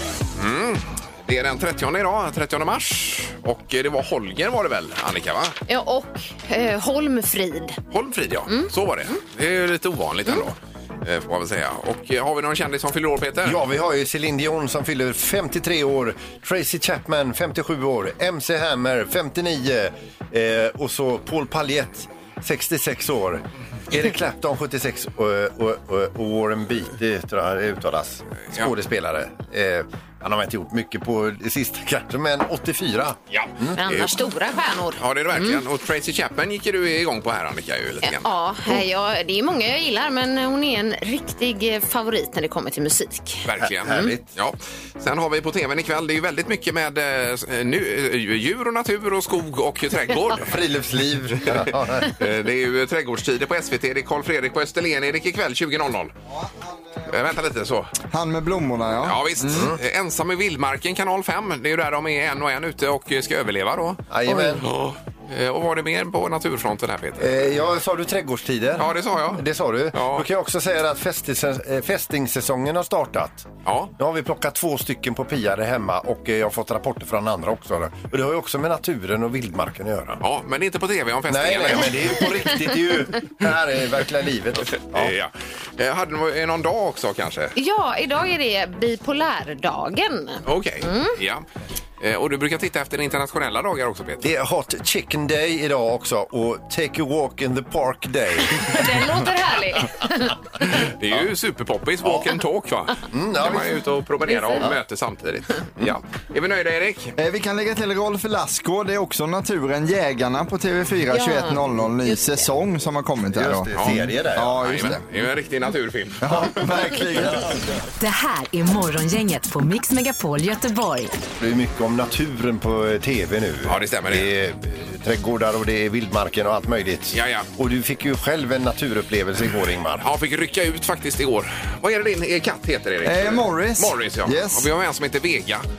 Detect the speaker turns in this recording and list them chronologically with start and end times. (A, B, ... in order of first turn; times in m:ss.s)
0:00.4-0:05.5 A
0:05.7-0:07.8 B
0:07.9-0:13.6 A
0:13.4-0:33.8 C
0:33.3-0:34.1 A
0:33.8-0:35.6 B
0:35.0-0:38.3 A
0:38.0-0:44.0 B
0:43.4-0:50.5 A
0:43.6-0:44.2 C
0:50.3-0:52.2 C
0:51.5-0:56.1 A
0:56.3-0:57.1 D
0:57.1-0:57.9 A
0:58.1-0:59.7 D
0:59.0-1:07.3 A
0:59.4-0:59.8 C
1:04.1-1:04.6 C
1:07.2-1:20.2 C
1:08.8-1:09.4 A
1:09.9-1:10.2 A
1:13.6-1:13.9 A
1:20.2-1:22.3 A
1:21.3-1:25.1 C
1:24.8-1:27.5 A
1:27.6-1:31.2 B
1:30.4-1:31.4 A
1:32.0-1:34.3 A
1:34.2-1:39.2 C
1:38.6-1:40.6 B
1:40.8-1:47.1 A
1:43.1-1:43.8 C
1:44.2-1:44.7 B
1:47.2-1:55.0 D
1:51.1-1:52.5 B
1:53.3-1:54.5 C
1:53.7-1:56.2 A
1:56.2-1:57.6 D
1:58.0-2:01.2 E
2:01.4-2:10.0 C
2:03.7-2:04.3 A
2:07.1-2:07.5 A
2:10.0-2:15.6 A
2:13.0-2:14.7 D